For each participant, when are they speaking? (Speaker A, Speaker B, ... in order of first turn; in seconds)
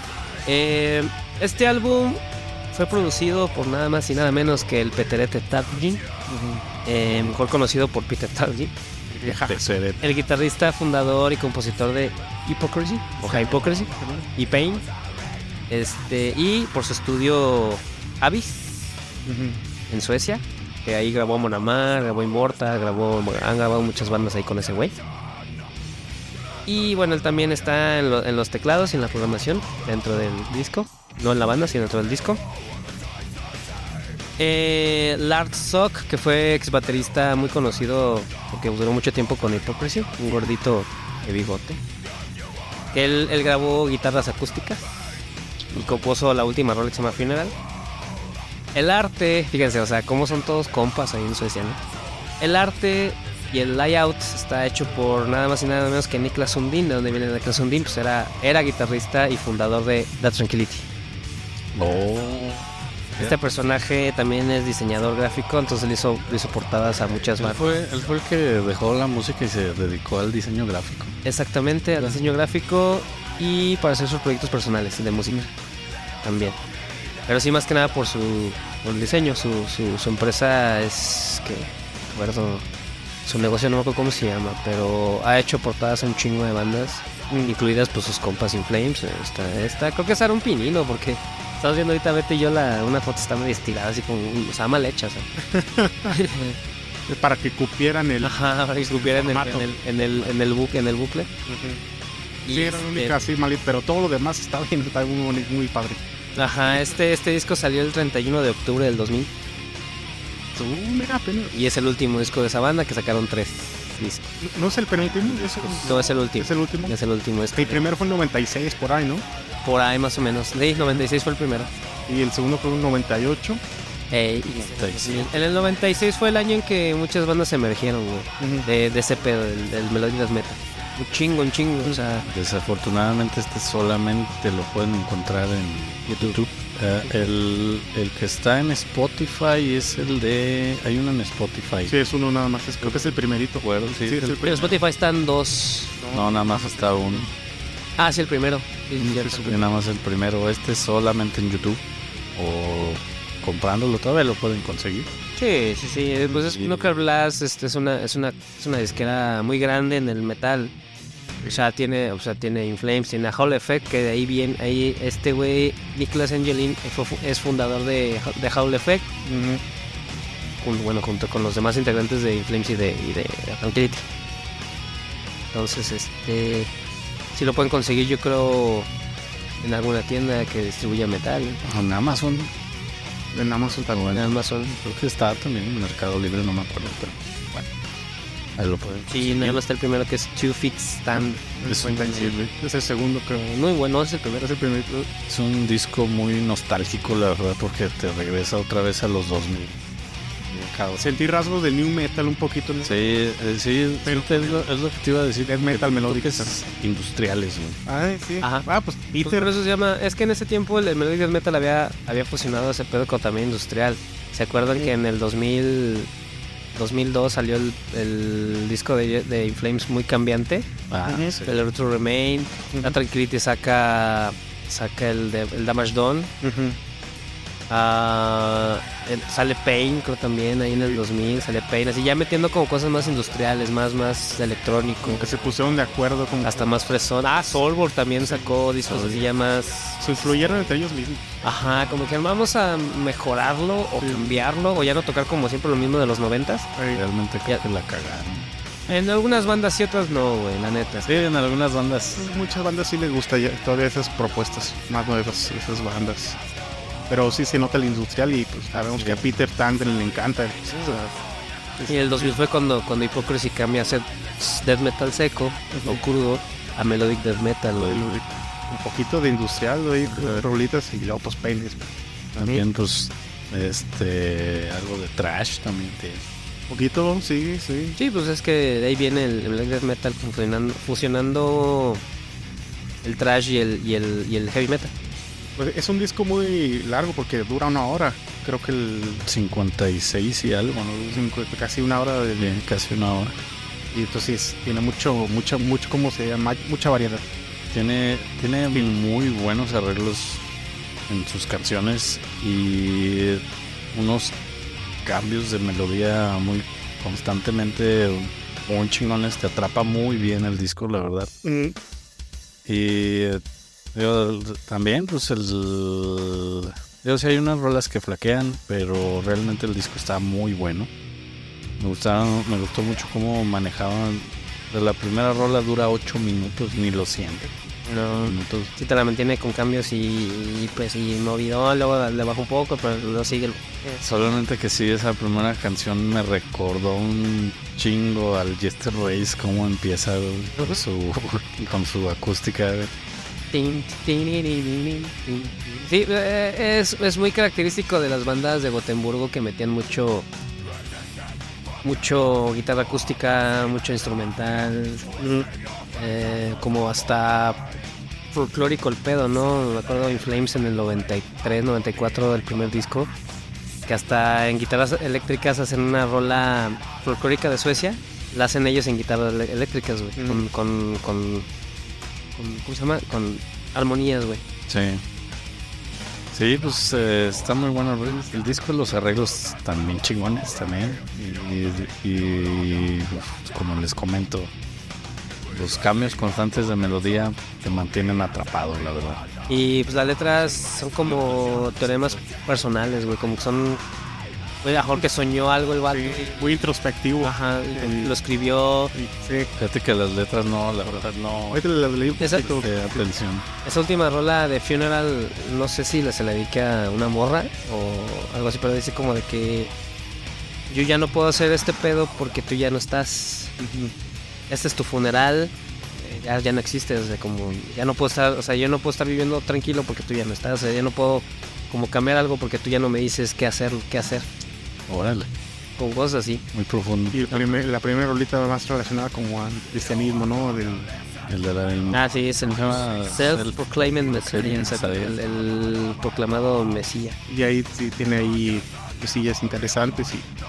Speaker A: 0.5-6.0, 6.8-8.7, 10.0-14.9, 15.7-18.9, 19.9-25.0, 26.7-32.4, 34.4-41.8, 42.9-44.9, 45.7-47.5, 48.7-51.8, 52.4-60.8, 63.2-67.6, 71.2-75.5, 76.2-76.6, 77.3-82.7, 83.2-95.3, 96.1-96.6, 98.2-101.3, 102.5-103.2, 106.4-109.3, 111.5-114.3, 115.6-117.8, 119.6-121.7, 124.1-132.3, 144.4-146.0, 148.0-149.6, 155.4-160.7, 161.5-169.1, 170.6-174.0, 175.5-176.7, 177.3-178.9, 179.6-181.6, 184.1-184.7, 189.1-192.3, 193.5-194.5, 209.2-216.1, 216.8-220.7, 221.4-226.3, 227.7-235.3, 236.4-240.7, 241.4-246.7, 248.9-251.1, 261.9-268.0, 278.0-282.0, 283.0-284.9, 327.9-334.0, 343.5-350.3, 351.8-355.1, 356.0-357.6, 358.3-363.1, 363.9-371.5, 372.4-374.4, 389.5-393.8, 394.6-396.4, 397.2-398.9, 402.2-402.5, 403.6-409.7, 410.7-413.5, 414.5-424.3, 425.8-426.4, 431.9-437.2
Speaker B: 6.3-6.7, 9.1-9.6, 13.3-14.3, 19.3-19.6, 87.3-87.6, 95.4-96.2, 97.1-100.3, 101.5-101.8, 102.5-106.0, 110.5-111.5, 114.4-117.0, 117.5-119.2, 122.1-123.6, 128.4-128.7, 141.9-144.7, 146.0-147.3, 149.0-149.6, 169.2-169.6, 183.3-184.2, 191.2-193.6, 194.4-195.1, 201.0-202.9, 204.0-204.7, 205.5-206.5, 207.9-209.5, 221.1-221.3, 226.4-226.8, 230.7-231.0, 235.0-236.7, 238.2-238.5, 240.0-241.3, 244.0-244.3, 246.8-247.0, 252.2-256.4, 257.1-261.1, 261.8-262.3, 265.7-266.0, 267.8-272.6, 276.7-278.0, 285.6-289.2, 291.1-292.5, 293.9-297.2, 311.4-311.8, 355.2-355.5, 370.2-370.4, 395.9-398.1, 398.9-399.5, 401.5-403.1, 413.6-413.9, 427.1-430.9, 437.3-440.3
Speaker C: 9.3-10.0, 45.7-46.0, 61.8-63.4, 67.4-71.1, 115.2-115.9, 124.8-125.3, 132.3-141.9, 142.8-144.7, 146.1-147.3, 149.0-151.8, 152.4-155.1, 156.3-156.9, 181.6-182.5, 183.9-187.2, 188.6-189.6, 191.7-192.5, 195.3-199.8, 200.4-201.0, 202.8-207.8, 220.9-221.6, 238.9-239.3, 246.9-248.5, 251.0-252.3, 258.8-259.2, 272.4-276.2, 289.2-291.2, 292.4-293.4, 297.7-300.4, 301.1-304.4, 305.0-311.3, 312.6-313.4, 313.9-320.9, 321.8-327.5, 328.2-328.7, 334.0-342.9, 374.7-375.0, 376.3-384.5, 385.5-389.2, 399.6-401.6, 402.3-403.5, 424.9-425.3, 426.5-427.2, 431.3-435.2